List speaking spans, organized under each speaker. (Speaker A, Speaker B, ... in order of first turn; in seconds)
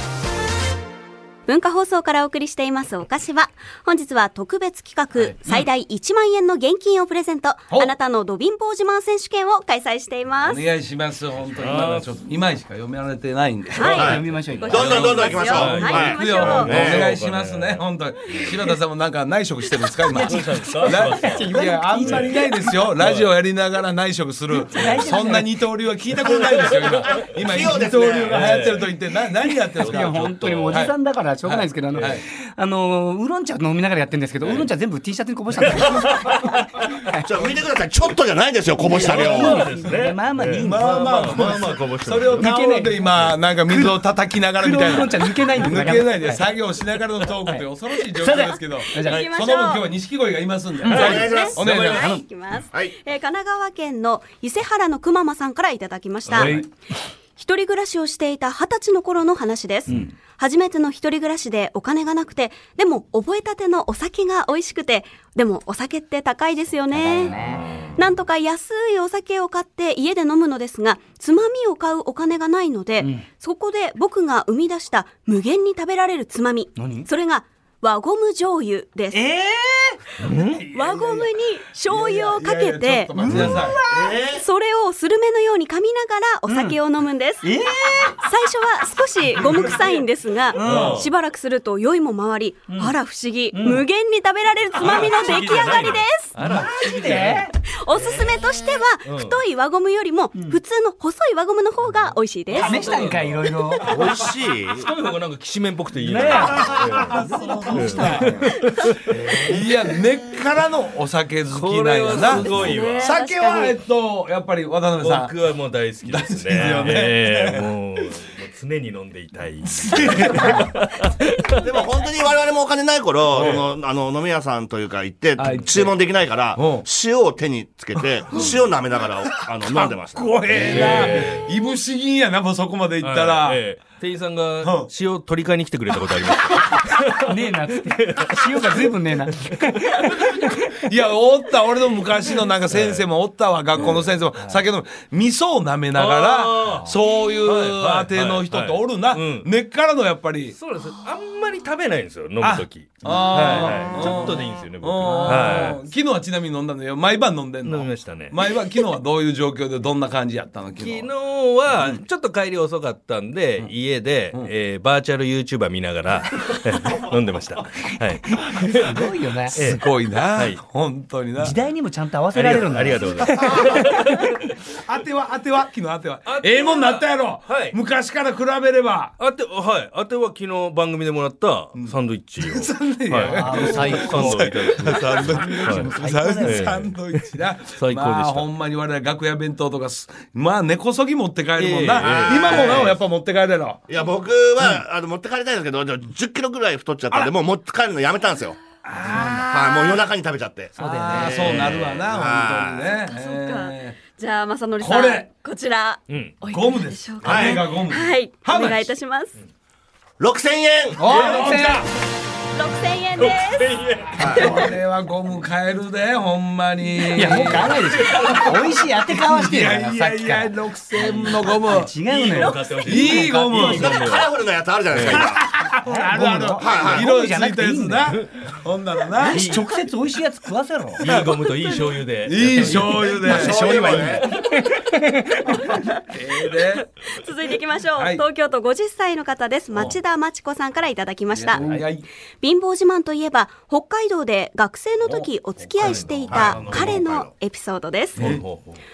Speaker A: 1.5-10.6, 13.7-16.7, 49.0-49.9, 50.9-56.7, 57.4-67.4, 68.0-79.2, 80.7-83.2, 84.3-87.5, 88.2-96.3, 97.7-103.0, 112.2-113.8, 203.1-209.3, 212.5-214.8, 231.5-231.9, 237.1-241.7, 242.4-248.2
Speaker B: 5.2-5.7, 10.4-32.2, 40.6-52.2, 56.3-56.7, 80.8-81.2, 81.9-83.8, 90.6-91.0, 106.5-108.5, 109.3-115.3, 116.1-117.7, 119.7-120.7, 123.3-123.6, 125.4-125.9, 126.5-126.8, 129.4-133.6, 134.6-134.9, 140.9-150.6, 152.4-161.1, 161.7-162.0, 169.6-171.6, 173.3-174.0, 174.8-179.2, 181.8-193.8, 198.8-200.0, 200.8-204.0, 204.8-205.2, 206.5-208.9, 211.0-211.9, 214.2-221.9, 222.8-223.9, 225.1-229.4, 231.1-231.4, 232.2-234.2, 236.1-236.9, 237.9-238.2, 241.3-242.1, 245.0-247.0, 248.2-248.4
Speaker C: 11.6-12.1, 15.5-18.5, 20.1-22.4, 23.0-23.3, 24.8-25.0, 26.3-27.3, 28.3-28.9, 29.8-30.9, 35.6-36.9, 38.9-42.5, 51.6-52.2, 56.3-56.6, 67.3-67.9, 80.2-80.6, 83.2-83.6, 90.6-91.1, 94.7-97.5, 99.0-99.4, 102.6-104.1, 104.7-109.6, 111.5-113.1, 115.0-121.6, 123.4-123.6, 130.5-131.5, 133.0-137.3, 137.9-138.9, 139.4-140.0, 142.7-143.1, 143.8-144.1, 145.9-149.5, 150.6-155.8, 157.6-158.4, 160.8-170.6, 172.3-174.3, 176.2-177.8, 179.2-185.9, 186.4-186.9, 187.8-188.5, 191.6-193.0, 201.4-201.9, 206.1-206.4, 213.2-214.4, 217.7-218.5, 221.0-224.3, 224.9-225.3, 229.3-229.7, 231.0-233.6, 245.8-246.1, 248.2-248.8
Speaker D: 13.8-15.3, 20.1-22.7, 24.7-25.5, 29.8-36.5, 37.0-37.3, 38.8-41.4, 42.3-43.1, 43.7-43.9, 44.6-46.4, 47.5-49.3, 66.9-67.7, 76.8-77.1, 79.1-80.0, 83.2-84.1, 86.5-86.8, 87.4-88.2, 90.5-91.0, 92.7-92.9, 93.5-93.8, 96.4-97.5, 102.5-103.9, 106.0-108.5, 137.2-140.9, 155.1-155.4, 168.6-169.6, 171.4-174.1, 183.3-186.8, 199.1-199.4, 200.8-201.5, 211.0-211.9, 217.1-220.5, 221.6-223.9, 225.8-228.2, 229.2-231.1, 233.4-235.9, 241.6-241.8
Speaker E: 13.9-17.1, 27.2-28.6, 37.2-39.6, 50.9-52.0, 83.9-84.4, 103.9-104.9, 121.6-131.0, 192.0-192.9, 193.9-198.6, 199.2-203.0, 207.2-207.7, 210.2-211.1, 214.2-214.7, 223.6-225.4, 226.6-227.1, 233.2-234.3, 246.3-247.3